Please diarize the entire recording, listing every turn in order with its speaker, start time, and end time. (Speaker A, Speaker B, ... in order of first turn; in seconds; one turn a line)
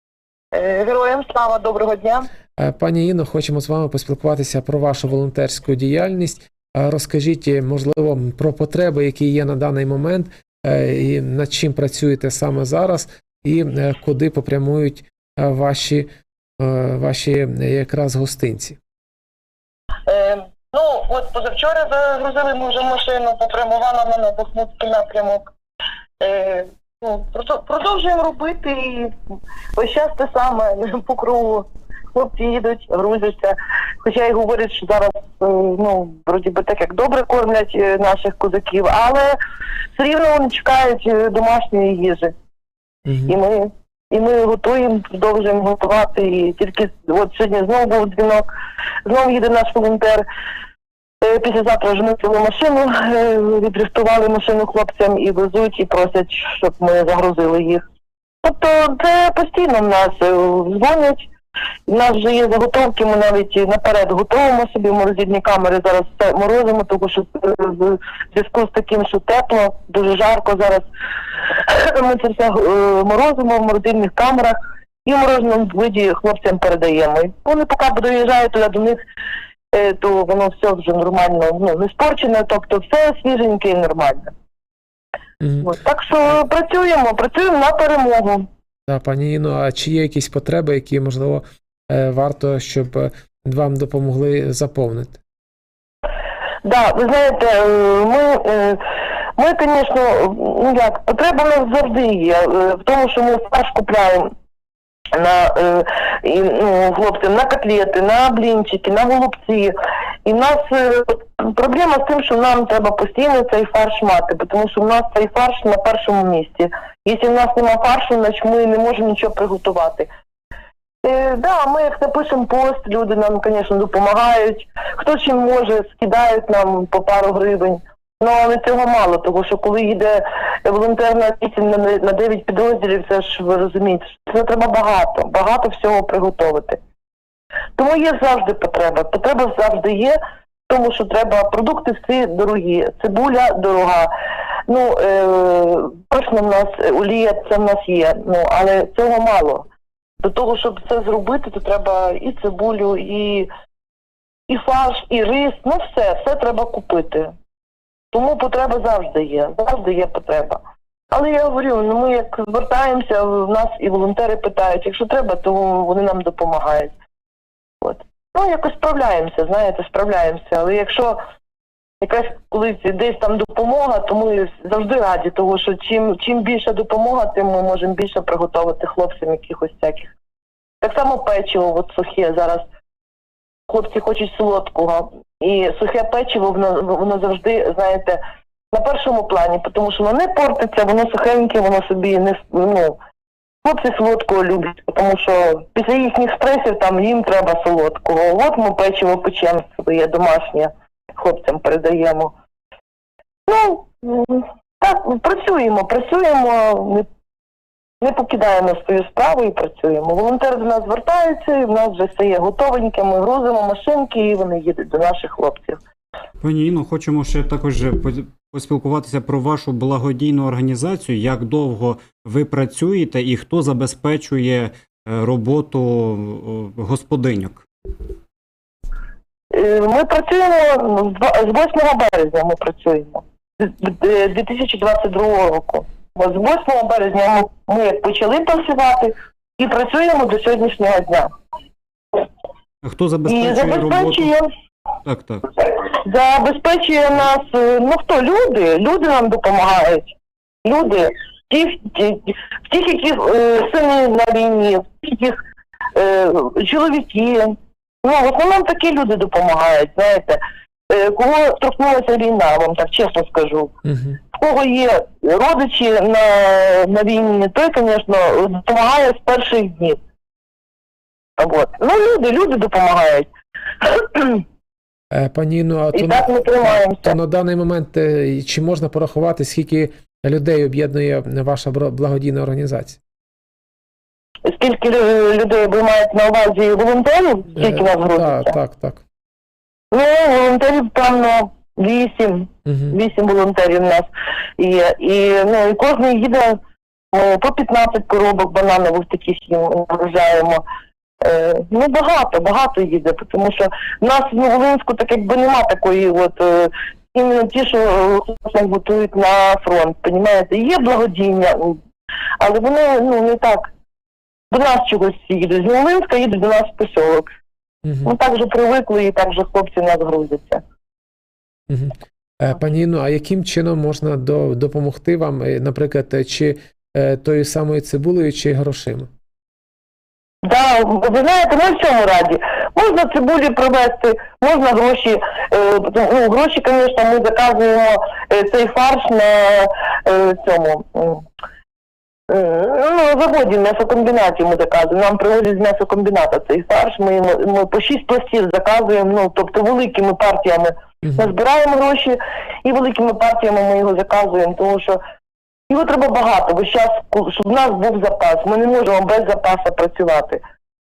Speaker A: 0.5-2.3
Speaker B: 2.6-18.8
Speaker A: 20.1-25.5
Speaker A: 26.2-29.1
Speaker A: 29.8-39.4
Speaker A: 40.0-42.3
Speaker B: 43.1-43.3
Speaker A: 43.2-48.5
Speaker A: 49.0-50.2
Speaker A: 51.2-57.8
Speaker A: 58.4-61.3
Speaker A: 61.9-70.9
Speaker A: 71.4-79.0
Speaker A: 79.7-84.3
Speaker B: 85.4-85.7
Speaker A: 85.6-88.5
Speaker B: 88.9-95.2
Speaker A: 96.6-98.8
Speaker A: 99.4-104.3
Speaker A: 105.1-109.7
Speaker A: 110.2-120.1
Speaker A: 121.0-136.8
Speaker A: 137.8-144.1
Speaker A: 144.7-149.7
Speaker A: 150.2-153.5
Speaker A: 154.5-157.3
Speaker A: 158.1-166.9
Speaker A: 167.8-171.2
Speaker A: 172.0-180.1
Speaker A: 180.8-182.7
Speaker A: 183.7-188.2
Speaker A: 188.7-193.0
Speaker A: 193.6-202.3
Speaker A: 203.5-207.1
Speaker A: 208.0-215.8
Speaker C: 216.4-227.7
Speaker A: 229.5-241.3
Speaker C: 242.8-244.3
Speaker A: 243.2-244.5
Speaker C: 245.1-245.4
Speaker A: 245.7-255.4
Speaker A: 255.9-263.7
Speaker B: 263.8-264.2
Speaker A: 264.3-270.0
Speaker A: 271.4-273.3
Speaker A: 273.8-274.4
Speaker B: 275.1-283.0
Speaker A: 275.9-277.1
Speaker A: 284.4-288.6
Speaker B: 287.6-289.0
Speaker A: 289.9-296.6
Speaker B: 292.6-292.9
Speaker A: 297.1-300.6
Speaker A: 301.2-311.8
Speaker A: 312.4-313.7
Speaker A: 314.5-317.3
Speaker B: 317.8-318.1
Speaker A: 318.1-320.6
Speaker B: 321.7-329.1
Speaker A: 330.4-341.2
Speaker A: 342.3-355.0
Speaker B: 351.0-351.3
Speaker A: 355.7-360.4